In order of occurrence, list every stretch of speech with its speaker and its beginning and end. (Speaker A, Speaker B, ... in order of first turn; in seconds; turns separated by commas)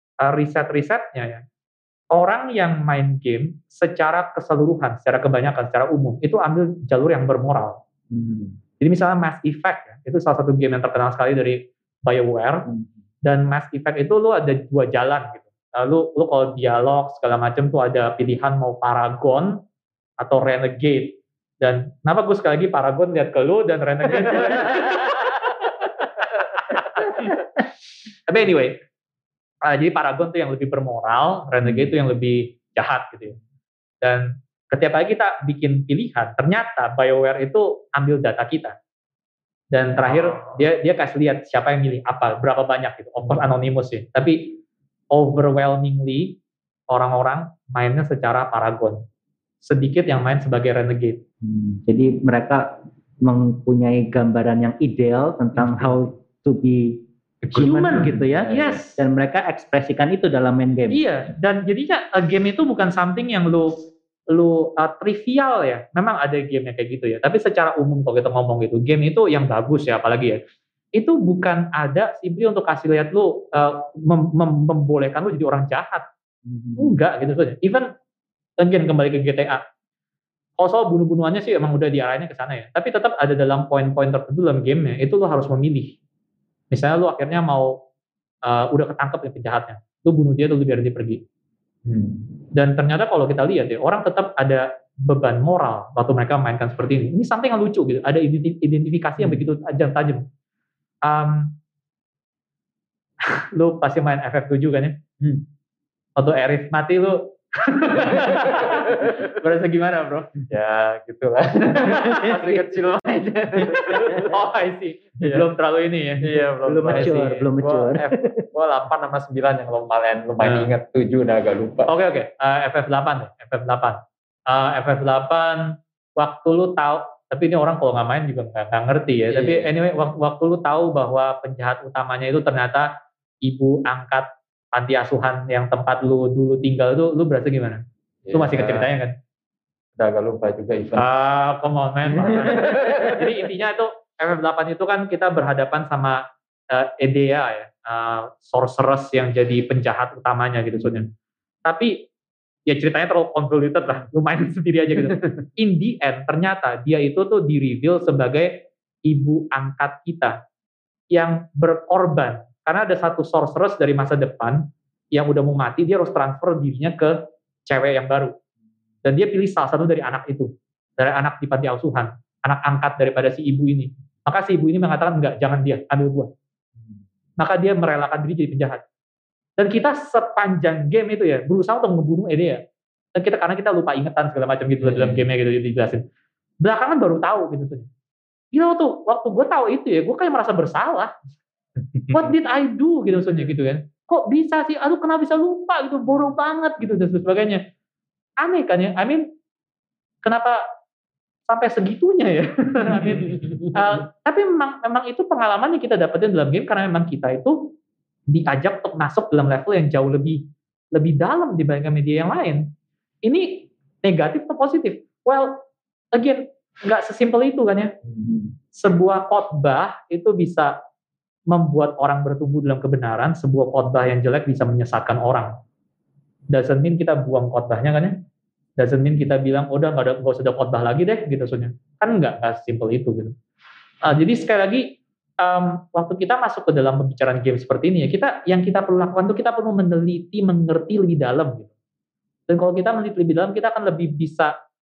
Speaker A: 0.2-1.4, Speaker A: 2.1-7.8, Speaker B: 8.1-8.4, Speaker A: 8.8-12.7, Speaker A: 13.2-19.6, Speaker A: 20.2-27.4, Speaker A: 28.3-28.8, Speaker A: 29.6-33.4, Speaker A: 34.0-38.8, Speaker A: 39.7-44.6, Speaker A: 45.1-46.4, Speaker A: 46.9-49.0, Speaker A: 49.6-51.2, Speaker C: 51.4-52.7, Speaker C: 53.2-61.0, Speaker A: 57.5-59.0, Speaker B: 57.9-58.8, Speaker A: 60.9-70.4, Speaker A: 71.0-76.0, Speaker C: 76.5-76.9, Speaker A: 76.8-77.9, Speaker A: 78.6-79.6, Speaker A: 80.6-86.0, Speaker A: 86.7-87.8, Speaker A: 88.4-91.2, Speaker B: 91.8-92.2, Speaker A: 92.5-100.2, Speaker A: 101.0-101.5, Speaker A: 103.3-105.0, Speaker A: 106.2-110.4, Speaker B: 108.3-109.2, Speaker B: 110.5-114.3, Speaker A: 111.9-112.6, Speaker C: 112.0-112.3, Speaker A: 113.7-117.5, Speaker C: 113.9-114.2, Speaker B: 115.2-115.5, Speaker B: 116.2-121.9, Speaker C: 116.8-118.4, Speaker A: 120.4-120.7, Speaker A: 121.8-132.9, Speaker B: 129.3-129.7, Speaker A: 133.4-139.1, Speaker B: 138.2-138.9, Speaker B: 140.0-141.1, Speaker A: 140.9-151.1, Speaker B: 142.2-143.2, Speaker A: 151.7-152.1, Speaker A: 152.7-160.4, Speaker A: 161.1-168.3, Speaker A: 169.0-176.3, Speaker A: 177.4-178.8, Speaker A: 179.6-182.6, Speaker A: 183.1-186.0, Speaker B: 184.8-185.2, Speaker A: 186.6-187.9, Speaker A: 188.5-191.1, Speaker A: 192.1-197.6, Speaker A: 198.4-199.3, Speaker A: 200.2-200.6, Speaker A: 201.5-207.7, Speaker A: 208.3-212.7, Speaker A: 213.2-217.9, Speaker A: 218.7-220.8, Speaker A: 221.5-225.5, Speaker A: 226.5-228.2, Speaker A: 228.8-233.3, Speaker A: 234.0-241.7, Speaker A: 242.5-244.5